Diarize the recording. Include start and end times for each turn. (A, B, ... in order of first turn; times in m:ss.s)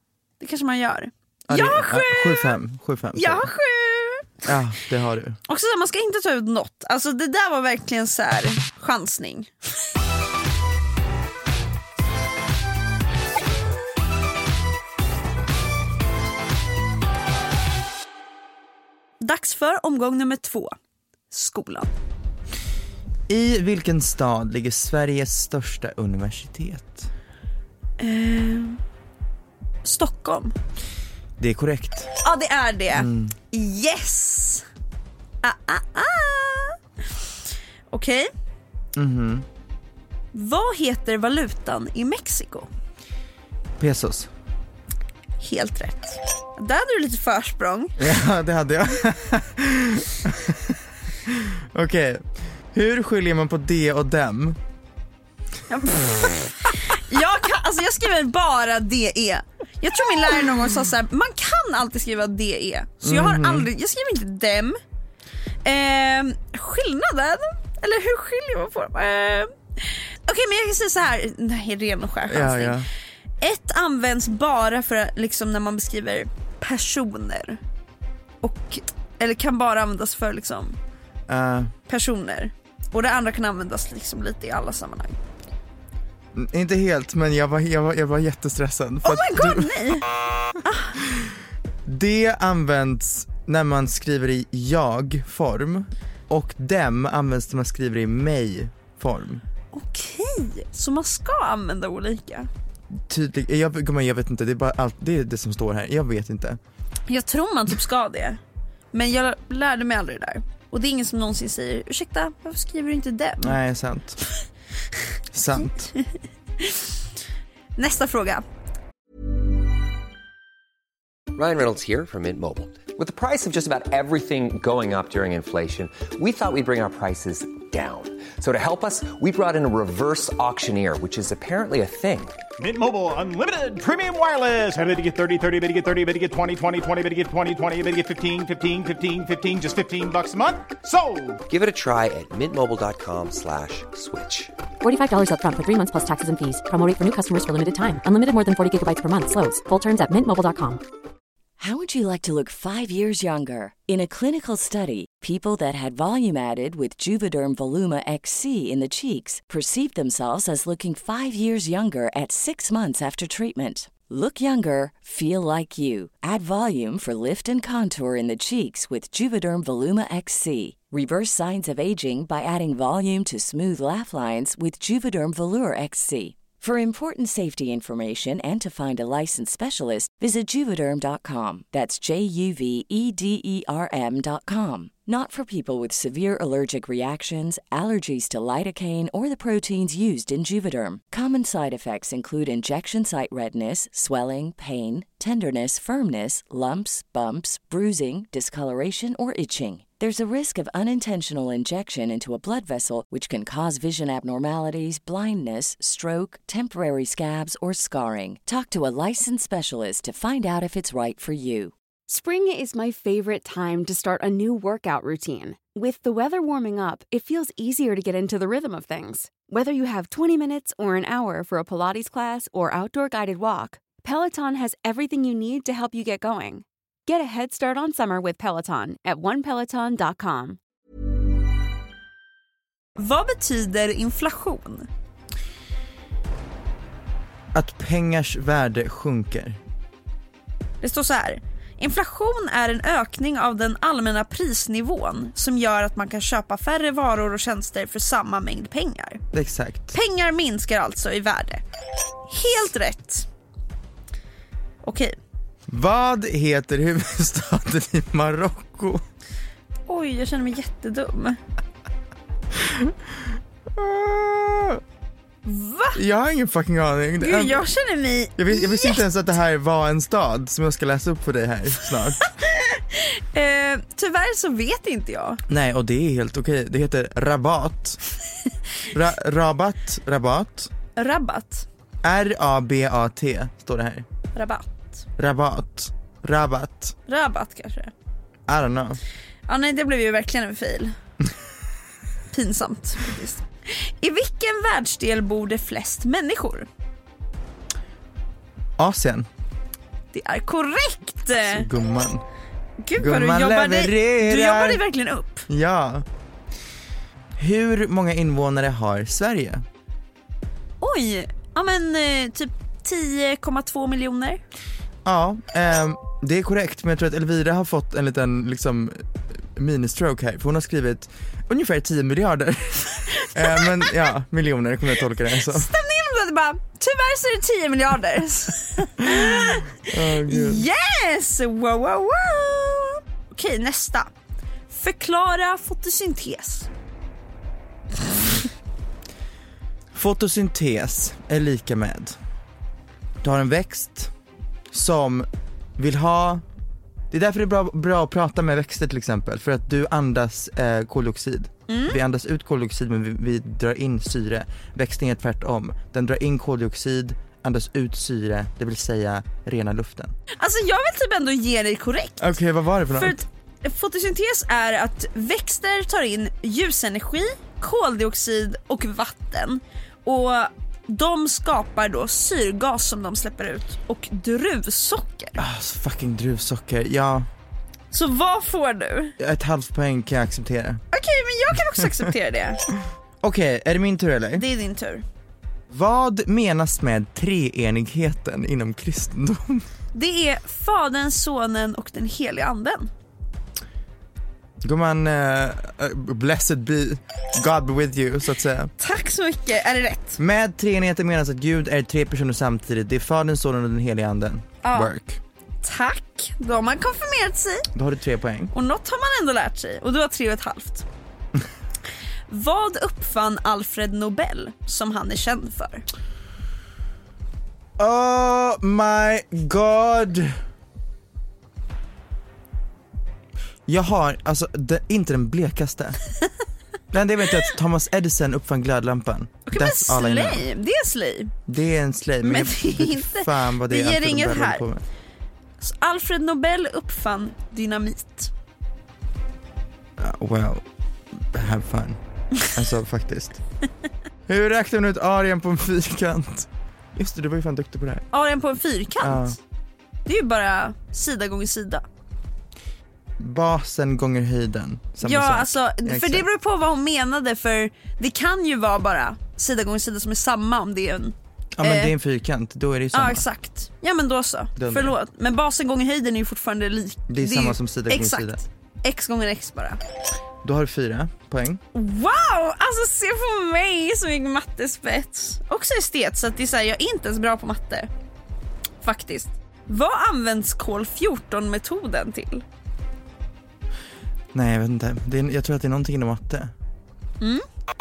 0:00.4-0:02.6 A
0:01.5-0:03.5 B
0:03.1-0:04.3 A
0:04.4-0:05.4 B
0:05.5-0:09.5 A
0:19.2-0:20.7 A
0:21.3-0:21.9 A
0:23.3-0:27.1 B
0:28.0-0:28.8 A
0:29.8-0:30.6 A
0:31.4-0:32.1 B
0:32.2-0:34.6 A
0:32.9-0:33.4 B
0:35.4-0:36.8 A
0:37.9-0:38.3 A
0:39.0-0:39.4 B
0:40.3-0:42.7 A
0:43.8-0:44.3 B
0:45.4-0:48.0 A
0:48.0-0:54.6 B
0:55.7-1:04.8 A
1:03.0-1:03.7 B
1:05.6-1:12.8 A
1:12.3-1:12.9 B
1:13.4-1:17.6 A
1:18.4-1:20.8 A
1:21.3-1:21.7 B
1:21.9-1:25.2 A
1:26.3-1:30.0 B
1:29.0-1:30.1 A
1:30.6-1:30.9 A
1:31.0-1:31.3 B
1:31.8-1:39.4 B
1:39.7-1:42.5 A
1:42.9-1:46.6 B
1:47.1-1:48.4 A
1:48.9-1:53.6 A
1:53.4-1:54.2 B
1:55.3-1:55.9 B
1:56.6-1:56.9 A
1:57.8-1:58.4 A
2:01.3-2:12.4 C
2:12.6-2:21.4 D
2:21.5-2:24.5 C
2:24.8-2:30.8 E
2:31.6-3:31.7 F
3:32.1-3:50.6 G
3:53.0-3:54.9 A
3:57.5-3:59.6 B
4:00.8-4:09.2 A
4:09.3-4:09.9 B
4:09.9-4:11.6 A
4:12.3-4:13.3 A
4:14.8-4:15.2 A
4:15.7-4:19.0 B
4:19.9-4:21.4 A
4:22.6-4:22.9 B
4:23.7-4:24.8 B
4:25.4-4:26.0 A
4:25.9-4:27.6 B
4:27.2-4:29.0 A
4:28.4-4:32.2 B
4:32.3-4:35.4 A
4:35.5-4:38.0 B
4:38.9-4:40.7 B
4:41.0-4:41.6 A
4:42.0-4:44.0 B
4:44.3-4:45.0 A
4:45.2-4:46.9 B
4:47.1-4:47.9 A
4:48.5-4:49.0 B
4:49.5-4:50.9 A
4:52.3-4:56.7 A
4:58.8-4:59.3 B
5:00.1-5:01.7 A
5:01.4-5:02.2 B
5:02.8-5:05.5 A
5:03.0-5:04.8 B
5:05.5-5:06.0 B
5:07.4-5:09.6 B
5:10.8-5:14.4 A
5:15.0-5:25.7 B
5:23.1-5:23.9 A
5:25.3-5:34.1 A
5:29.0-5:30.6 B
5:34.7-5:36.7 A
5:39.9-5:42.2 B
5:43.2-5:44.1 B
5:44.7-5:46.4 B
5:47.1-6:00.1 B
5:51.7-5:52.0 A
6:00.4-6:02.3 A
6:02.2-6:03.2 B
6:02.9-6:15.4 A
6:15.4-6:17.3 B
6:17.9-6:19.1 A
6:19.2-6:20.8 B
6:20.9-6:22.6 A
6:23.2-6:24.4 B
6:24.3-6:25.0 A
6:25.7-6:29.6 B
6:29.9-6:32.9 A
6:34.6-6:38.7 B
6:38.8-6:40.2 A
6:40.2-6:45.2 B
6:44.6-6:44.9 A
6:45.6-6:47.7 A
6:47.7-6:48.5 B
6:48.5-6:50.8 A
6:52.3-6:55.8 A
6:57.8-7:00.4 B
7:03.7-7:06.0 B
7:06.9-7:10.5 B
7:09.5-7:11.3 A
7:11.5-7:14.8 B
7:12.2-7:14.6 A
7:15.6-7:18.3 A
7:20.0-7:20.6 B
7:21.2-7:23.4 B
7:24.3-7:28.1 B
7:28.1-7:29.4 A
7:29.0-7:29.4 B
7:30.0-7:31.8 A
7:33.2-7:36.3 B
7:35.0-7:41.9 A
7:41.6-7:43.2 B
7:42.9-7:49.8 A
7:44.6-7:45.0 B
7:47.1-7:48.4 B
7:50.4-7:51.6 B
7:51.7-7:57.9 A
7:58.8-8:02.4 A
8:04.3-8:06.5 B